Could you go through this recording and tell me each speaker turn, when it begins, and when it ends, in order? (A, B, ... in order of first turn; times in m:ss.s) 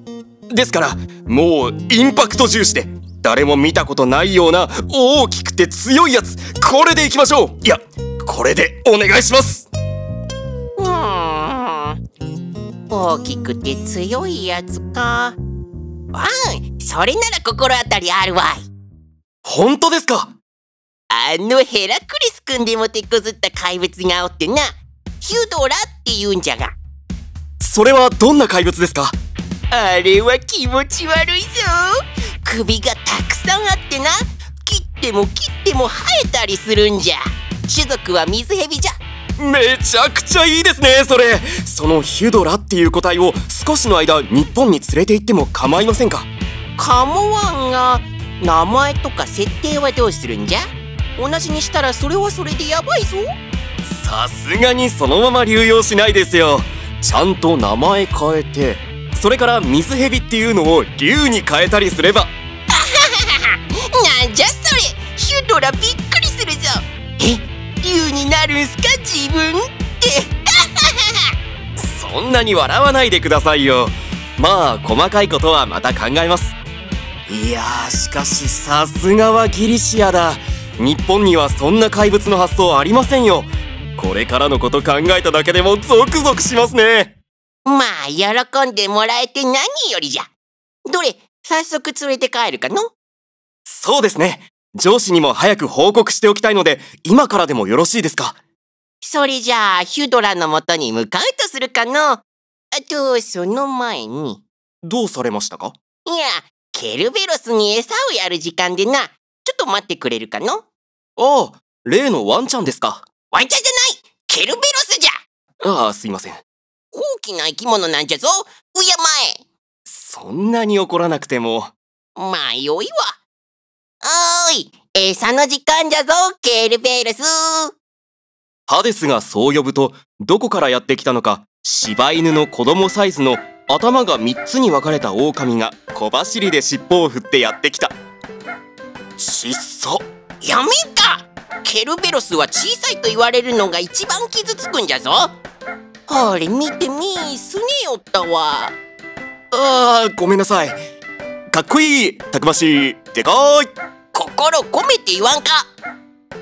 0:00.5-0:09.7 A
0:10.8-0:12.0 B
0:12.9-0:15.4 B
0:16.1-0:18.7 B
0:19.4-0:20.3 A
0:21.1-0:26.7 B
0:27.6-0:29.2 A
0:29.7-0:38.9 B
0:39.4-0:46.3 A
0:46.8-0:50.6 B
0:51.2-0:53.3 B
0:53.8-1:02.3 A
1:02.7-1:11.3 B
1:11.8-1:16.6 A
1:17.3-1:27.2 A
1:27.7-1:30.3 B
1:30.9-1:32.9 B
1:33.7-1:38.4 A
1:39.0-1:42.2 B
1:42.8-1:44.4 B
1:44.8-1:45.8 A
1:46.0-1:50.6 B
1:51.2-1:53.0 A
1:53.3-1:55.1 B
1:55.6-1:56.4 A
1:56.9-1:59.4 B
1:59.9-2:01.7 A
2:02.2-2:03.1 B
2:04.0-2:07.7 B
2:08.7-2:17.9 A
2:19.2-2:20.0 A
2:20.4-2:25.3 B
2:26.1-2:28.8 B
2:29.5-2:30.8 A
2:31.5-2:33.7 A
2:34.1-2:35.7 B